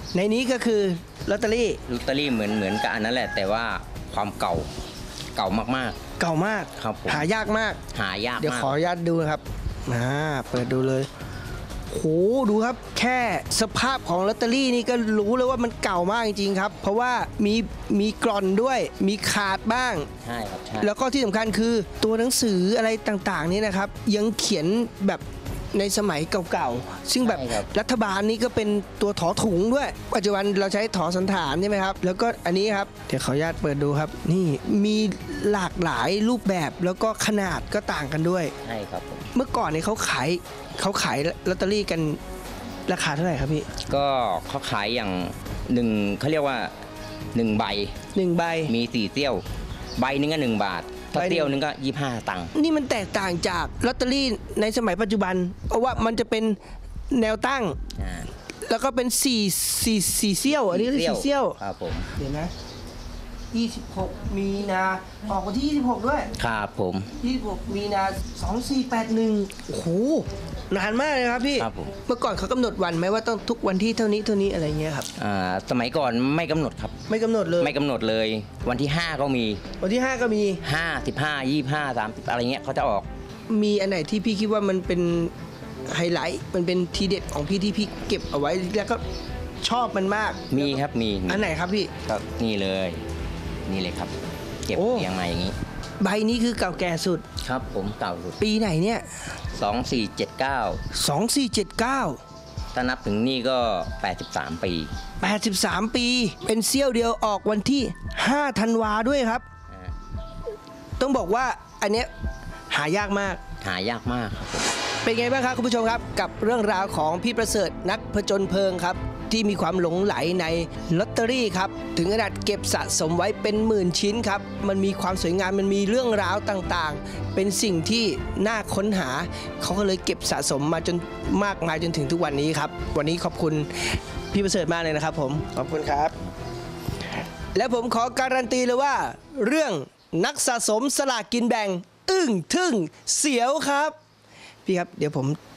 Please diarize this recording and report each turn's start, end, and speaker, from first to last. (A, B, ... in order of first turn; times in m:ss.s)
0:00.1-0:01.8 A
0:01.9-0:04.7 B
0:05.4-0:06.0 B
0:06.2-0:07.8 A
0:06.8-0:07.3 B
0:07.9-0:08.8 B
0:08.4-0:11.1 A
0:11.9-0:20.1 A
0:20.2-0:20.9 B
0:20.8-0:38.5 A
0:27.2-0:27.7 B
0:38.6-0:39.3 B
0:39.3-0:42.2 A
0:42.9-0:43.7 A
0:43.9-0:46.7 B
0:47.3-0:48.0 B
0:48.2-0:48.7 A
0:48.7-0:49.4 B
0:50.0-0:52.5 B
0:51.1-0:51.6 A
0:52.6-0:56.6 A
0:57.1-0:57.8 A
0:58.0-0:58.3 B
0:58.7-1:01.6 A
1:00.5-1:02.1 B
1:02.2-1:02.5 A
1:03.5-1:06.3 A
1:06.4-1:07.1 B
1:07.2-1:15.1 A
1:11.6-1:11.9 B
1:15.2-1:17.0 B
1:17.1-1:17.8 A
1:17.6-1:19.6 B
1:19.8-1:20.6 A
1:20.6-1:23.1 B
1:23.5-1:25.3 A
1:25.9-1:29.0 A
1:29.6-1:31.9 A
1:30.5-1:31.5 B
1:32.0-1:33.0 B
1:33.7-1:34.1 B
1:34.7-1:35.6 B
1:34.7-1:35.1 A
1:36.0-1:37.2 A
1:37.4-1:38.4 B
1:38.4-1:39.0 A
1:39.6-1:40.8 B
1:40.9-1:42.2 A
1:42.7-1:44.9 B
1:45.2-1:49.4 A
1:51.0-1:52.1 A
1:52.7-1:53.4 A
1:53.6-1:54.7 B
1:55.0-2:16.2 A
2:17.5-2:24.0 A
2:24.7-2:25.4 A